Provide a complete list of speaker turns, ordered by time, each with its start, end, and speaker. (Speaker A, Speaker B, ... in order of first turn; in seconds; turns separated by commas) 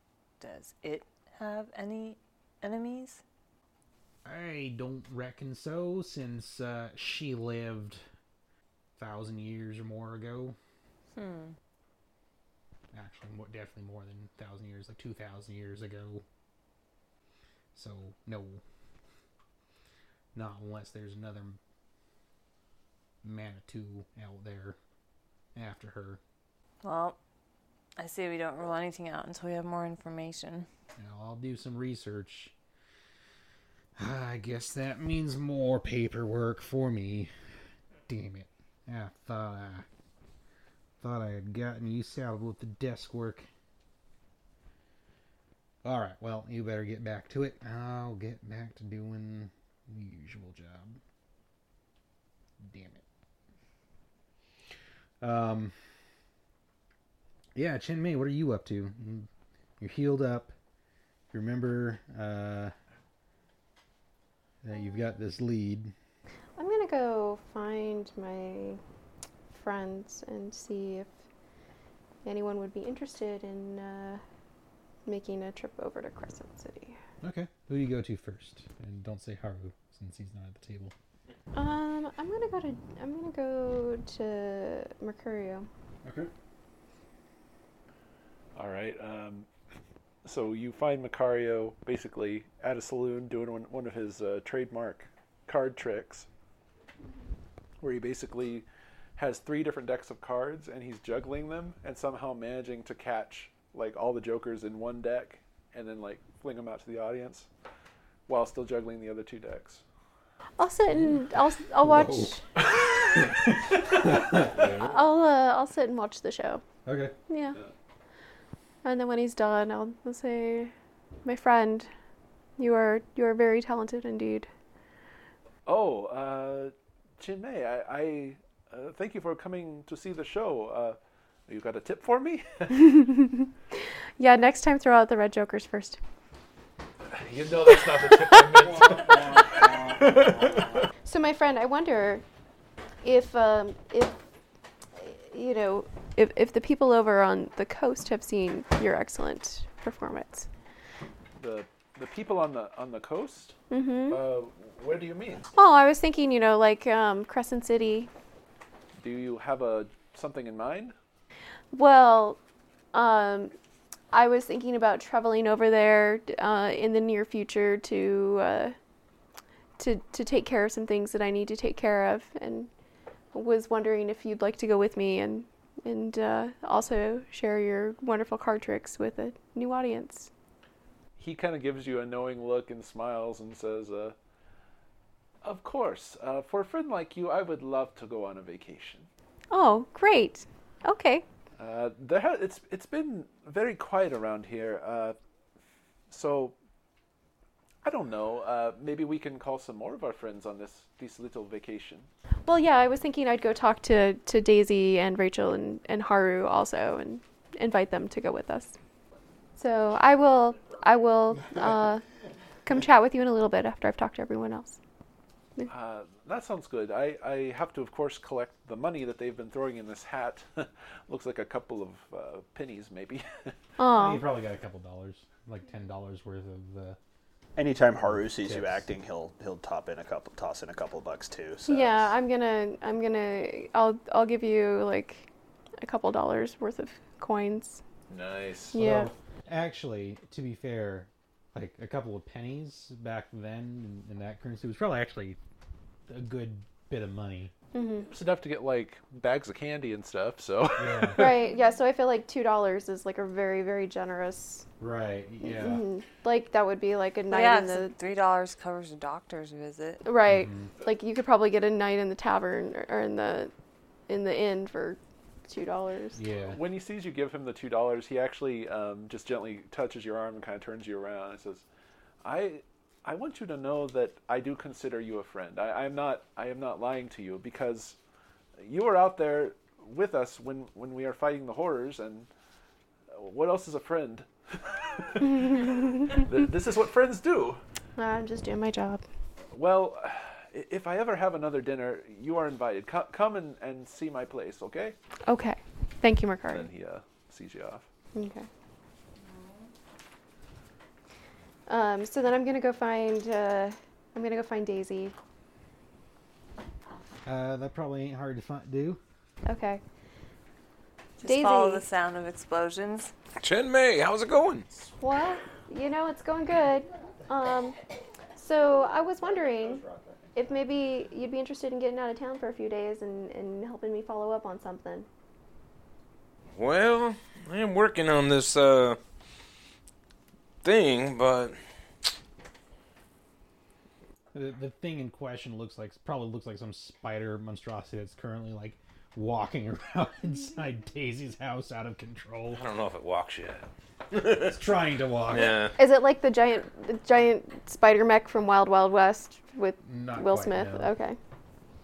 Speaker A: 0.4-3.2, Speaker B: 4.2-8.0, Speaker B: 9.0-10.6, Speaker A: 11.1-11.5, Speaker B: 12.9-16.2, Speaker B: 17.7-18.6, Speaker B: 20.3-21.6, Speaker B: 23.2-24.8, Speaker B: 25.5-26.2, Speaker A: 26.8-27.2, Speaker A: 28.0-30.7, Speaker B: 30.9-32.5, Speaker B: 34.0-37.3, Speaker B: 38.1-39.9, Speaker B: 41.0-43.5, Speaker B: 45.8-51.0, Speaker B: 52.6-53.0, Speaker B: 55.2-55.8, Speaker B: 57.5-59.3, Speaker B: 59.8-60.5, Speaker B: 61.3-62.7, Speaker B: 64.6-65.9, Speaker C: 66.6-68.8, Speaker C: 69.5-71.1, Speaker C: 72.2-74.2, Speaker C: 75.0-77.0, Speaker B: 77.2-80.9, Speaker C: 81.5-85.7, Speaker D: 88.5-89.5, Speaker D: 90.2-96.3, Speaker D: 97.8-98.6, Speaker D: 99.2-107.5, Speaker D: 108.3-109.8, Speaker C: 110.6-112.4, Speaker B: 111.8-112.6, Speaker B: 113.1-114.7, Speaker C: 114.1-116.6, Speaker B: 116.8-117.1, Speaker C: 117.3-117.5, Speaker C: 118.8-120.7, Speaker C: 121.2-121.9, Speaker C: 122.6-124.5, Speaker D: 125.7-132.9, Speaker C: 132.8-133.5, Speaker C: 134.2-136.0, Speaker D: 137.1-140.8, Speaker B: 138.7-140.2, Speaker C: 141.0-142.2, Speaker C: 143.0-144.2, Speaker C: 144.9-150.5, Speaker D: 151.4-153.5, Speaker C: 153.7-154.3, Speaker D: 154.1-155.5, Speaker C: 155.5-158.1, Speaker D: 159.0-160.9, Speaker C: 161.7-162.4, Speaker C: 162.9-163.5, Speaker C: 164.1-168.8, Speaker C: 169.8-172.7, Speaker C: 173.3-180.3, Speaker D: 181.2-184.2, Speaker D: 185.4-189.1, Speaker C: 189.5-191.2, Speaker D: 191.6-195.2, Speaker D: 196.1-196.5, Speaker D: 197.8-202.1, Speaker C: 202.4-208.8, Speaker C: 209.6-212.0, Speaker C: 212.6-214.8, Speaker D: 215.7-223.6, Speaker C: 223.8-224.2, Speaker B: 223.9-227.0, Speaker E: 227.6-232.1, Speaker B: 228.0-228.8, Speaker C: 231.7-235.3, Speaker C: 235.8-237.8, Speaker F: 238.1-238.7, Speaker C: 238.7-239.1, Speaker B: 238.8-245.4, Speaker B: 246.1-247.5, Speaker C: 247.7-248.1, Speaker D: 248.0-251.4, Speaker B: 250.8-251.3, Speaker C: 251.2-254.7, Speaker B: 254.8-255.8, Speaker C: 255.4-257.9, Speaker A: 257.3-260.0, Speaker C: 260.0-263.5, Speaker B: 260.2-260.7, Speaker C: 264.1-266.2, Speaker B: 266.1-266.6, Speaker D: 266.5-271.6, Speaker D: 272.2-278.0, Speaker D: 278.6-282.3, Speaker D: 283.1-287.6, Speaker C: 287.9-289.0, Speaker D: 289.5-294.9, Speaker C: 295.3-296.7, Speaker D: 296.5-297.9, Speaker C: 298.1-298.5, Speaker A: 299.2-299.7, Speaker C: 301.7-305.1, Speaker B: 307.2-309.0, Speaker C: 309.4-309.8, Speaker A: 311.2-313.1, Speaker C: 311.2-311.8, Speaker F: 313.4-314.7, Speaker C: 315.0-317.8, Speaker C: 318.4-319.8, Speaker C: 320.3-325.1, Speaker F: 326.5-329.0, Speaker F: 330.6-331.6, Speaker B: 334.3-342.6, Speaker F: 342.5-344.5, Speaker B: 344.4-345.7, Speaker F: 345.3-345.8, Speaker C: 345.8-351.2, Speaker B: 349.8-350.9